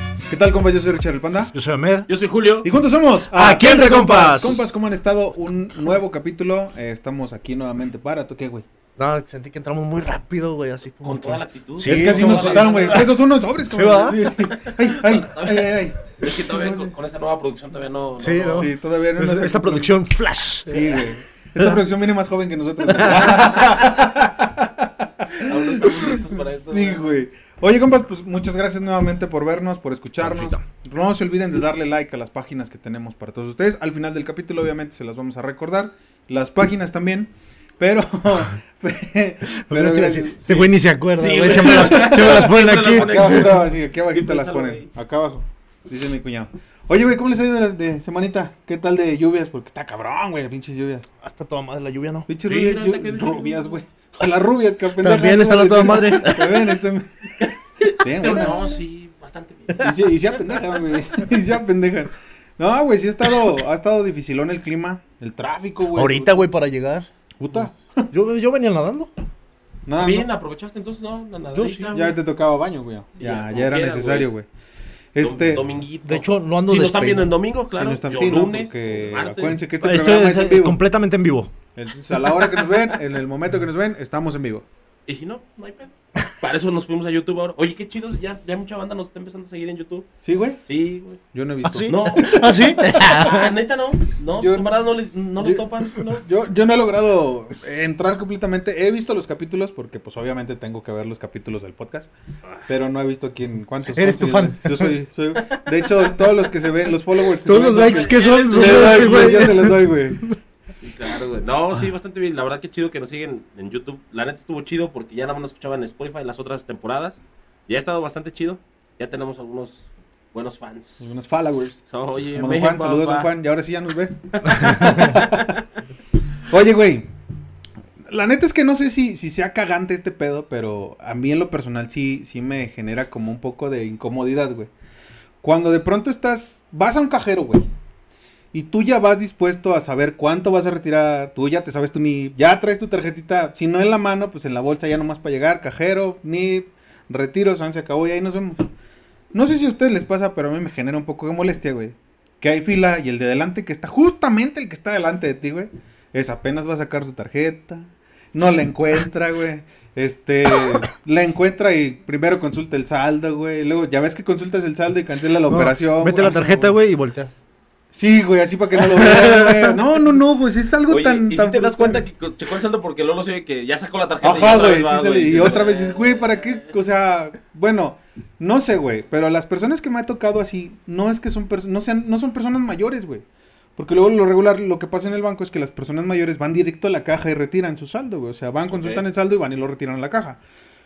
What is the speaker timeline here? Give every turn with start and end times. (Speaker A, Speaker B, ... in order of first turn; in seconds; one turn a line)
Speaker A: 0.3-1.5
Speaker B: 1.5-2.1
Speaker C: 2.1-2.7
Speaker A: 2.6-8.7
Speaker B: 3.3-4.6
Speaker B: 9.0-13.1
Speaker C: 11.0-13.2
Speaker A: 11.8-16.9
Speaker B: 13.7-14.2
Speaker C: 14.4-18.7
Speaker B: 18.2-21.0
Speaker A: 18.5-19.9
Speaker A: 20.6-40.7
Speaker B: 22.9-24.1
Speaker C: 23.0-23.7
Speaker C: 25.3-27.1
Speaker B: 30.2-30.6
Speaker B: 39.5-43.5
Speaker C: 40.5-44.9
Speaker A: 41.4-51.1
Speaker B: 51.2-52.3
Speaker A: 52.3-57.1
Speaker C: 52.4-53.8
Speaker B: 55.0-56.7
Speaker C: 57.4-59.9
Speaker A: 58.0-58.8
Speaker B: 58.2-58.5
Speaker A: 59.8-66.5
Speaker B: 65.9-67.1
Speaker A: 67.4-68.1
Speaker B: 68.1-69.1
Speaker A: 69.8-70.3
Speaker C: 69.9-72.2
Speaker B: 71.5-71.9
Speaker A: 71.9-74.5
Speaker C: 73.2-74.3
Speaker A: 75.1-75.7
Speaker C: 75.2-79.6
Speaker B: 76.0-77.3
Speaker A: 77.7-80.8
Speaker B: 79.8-81.5
Speaker A: 81.7-84.6
Speaker C: 82.4-83.0
Speaker C: 85.1-90.1
Speaker A: 90.2-90.6
Speaker C: 90.7-91.2
Speaker A: 91.3-92.8
Speaker B: 91.6-93.5
Speaker C: 91.9-96.3
Speaker A: 94.3-94.7
Speaker A: 95.4-102.1
Speaker A: 102.7-110.2
Speaker B: 103.9-105.0
Speaker B: 107.4-110.3
Speaker C: 107.5-109.7
Speaker C: 110.8-121.1
Speaker A: 121.0-125.6
Speaker C: 121.9-123.3
Speaker C: 124.3-125.6
Speaker A: 126.5-127.1
Speaker A: 128.0-134.7
Speaker A: 135.4-137.7
Speaker A: 138.5-148.7
Speaker A: 149.3-166.8
Speaker B: 165.4-167.3
Speaker A: 167.9-172.1
Speaker B: 168.8-169.8
Speaker C: 170.9-176.7
Speaker A: 174.2-183.2
Speaker A: 183.8-190.4
Speaker C: 188.7-189.0